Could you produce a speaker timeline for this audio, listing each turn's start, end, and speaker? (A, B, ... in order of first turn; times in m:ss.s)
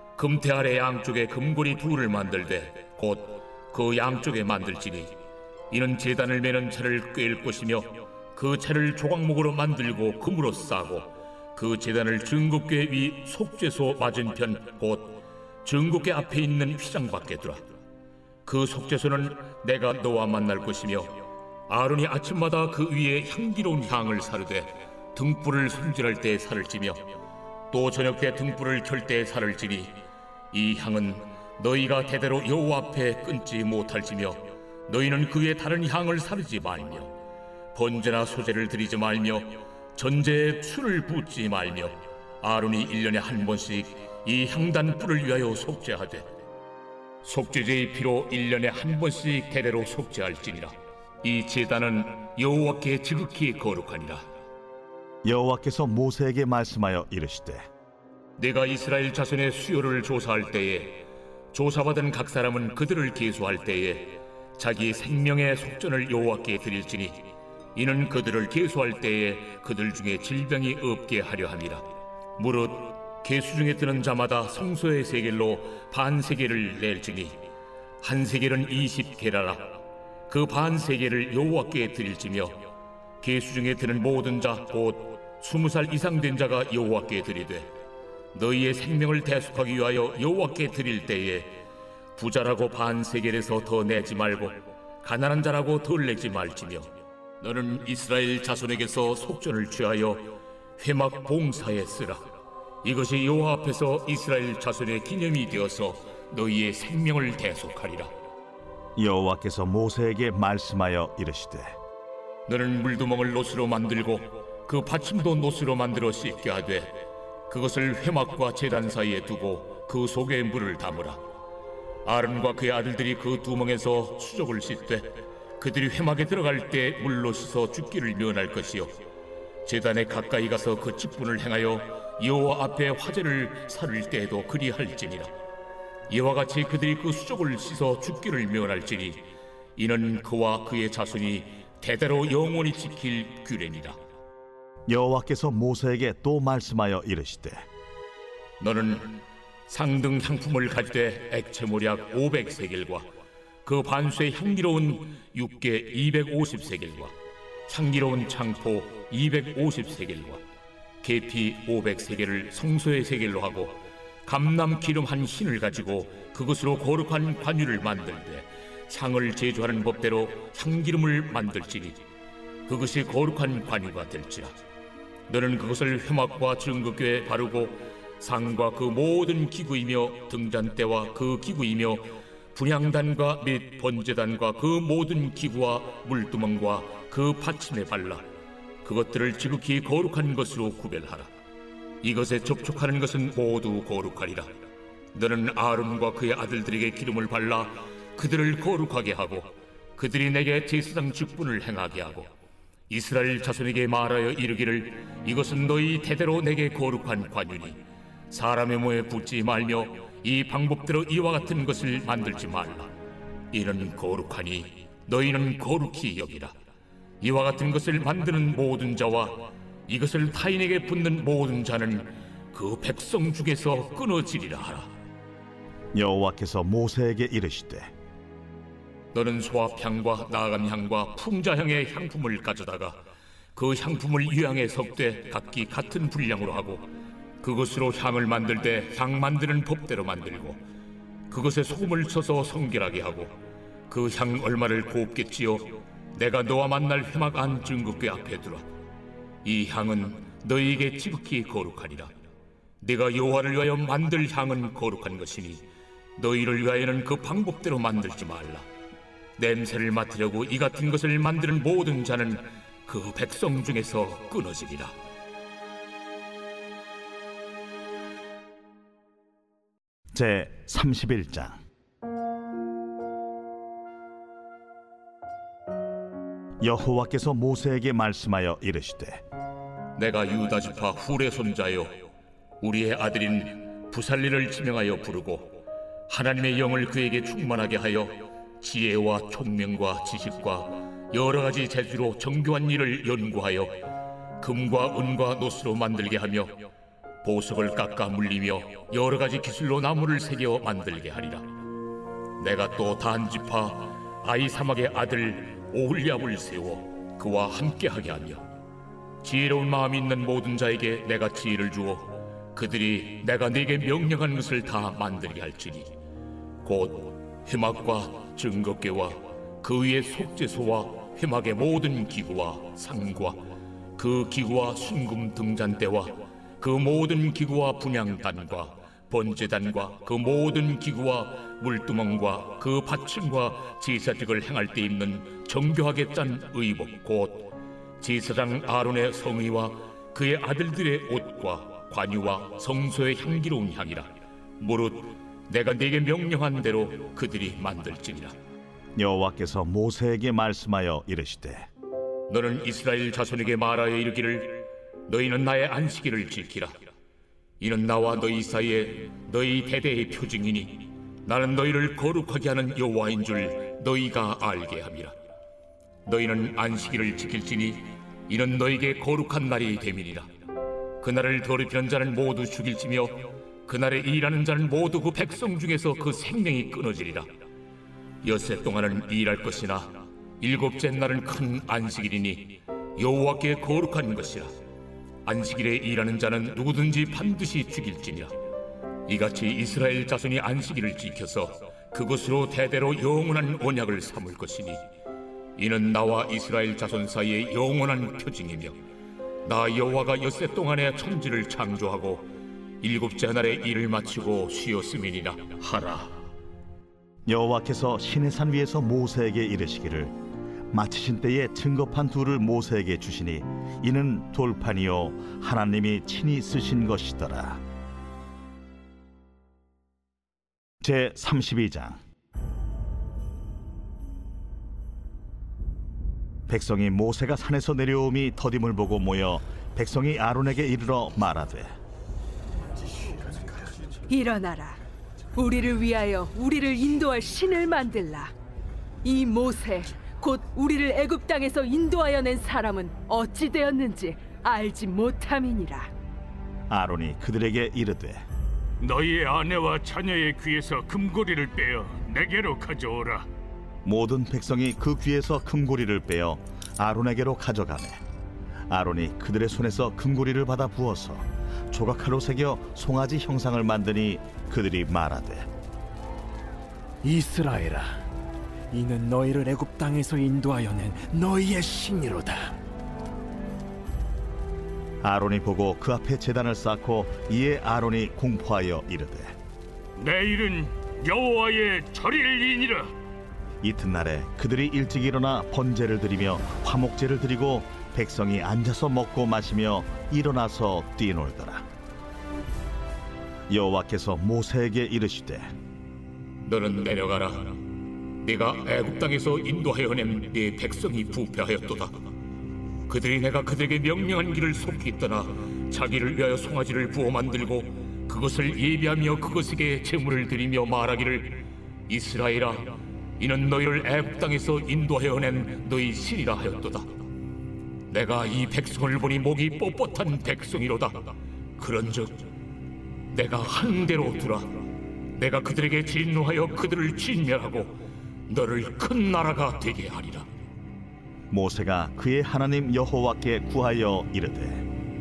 0:00.2-0:05.2 A
0:05.7-0:17.7 A
0:18.4-0:27.1 A
0:27.7-0:30.0 A
0:30.5-0:37.1 A
0:37.7-0:46.3 A
0:47.2-0:54.3 A
0:55.2-0:57.6 B
0:58.4-1:11.8 A
1:12.4-1:17.4 A
1:18.0-1:22.6 A
1:23.2-1:27.7 A
1:28.3-1:31.6 A
1:32.2-1:42.3 A
1:42.8-1:48.1 A
1:49.0-1:51.8 B
1:52.5-2:01.2 A
2:02.0-2:09.0 A
2:09.6-2:15.3 A
2:16.1-2:24.0 A
2:24.9-2:27.6 B
2:28.6-2:33.1 A
2:33.6-2:37.1 A
2:37.7-2:40.4 A
2:41.0-2:52.0 A
2:52.7-2:54.6 A
2:55.3-3:08.3 A
3:08.8-3:11.3 A
3:12.0-3:14.5 A
3:15.1-3:22.3 A
3:22.9-3:32.9 A
3:33.5-3:36.6 A
3:37.2-3:44.9 A
3:46.0-3:47.9 B
3:49.1-3:53.0 A
3:53.6-3:56.9 A
3:57.4-4:00.6 A
4:01.3-4:03.4 A
4:03.9-4:08.7 A
4:09.4-4:12.1 A
4:12.8-4:15.6 A
4:16.2-4:18.7 A
4:19.4-4:25.0 A
4:30.1-4:31.6 B
4:36.6-4:39.2 B
4:40.0-4:42.1 A
4:42.6-4:53.8 A
4:54.4-4:56.7 A
4:57.2-5:01.5 A
5:02.4-5:08.5 A
5:09.2-5:15.9 A
5:16.6-5:23.4 A
5:24.0-5:48.3 A
5:49.0-5:51.7 B
5:52.3-5:56.9 A
5:57.6-6:05.2 A
6:06.1-6:10.3 A
6:11.0-6:17.3 A
6:18.2-6:24.5 A
6:25.2-6:28.4 A
6:29.1-6:34.8 A
6:35.6-6:38.8 A
6:39.4-6:42.3 A
6:42.8-6:46.2 A
6:47.3-6:50.1 B
6:50.7-6:57.6 B
7:00.8-7:02.0 B
7:06.5-7:11.7 B
7:14.1-7:14.8 C
7:15.4-7:18.3 C
7:19.0-7:25.9 C
7:26.7-7:28.2 B
7:28.8-7:33.3 D
7:33.8-7:38.0 B
7:38.7-7:45.5 B
7:47.0-7:48.0 E
7:48.7-7:52.6 E
7:55.0-7:59.4 B
8:00.0-8:02.9 D
8:03.6-8:11.7 B
8:13.5-8:15.5 B
8:16.5-8:17.6 A
8:18.2-8:22.0 A
8:22.9-8:36.9 A
8:37.9-8:42.3 A
8:43.1-8:50.3 A
8:51.3-8:54.7 B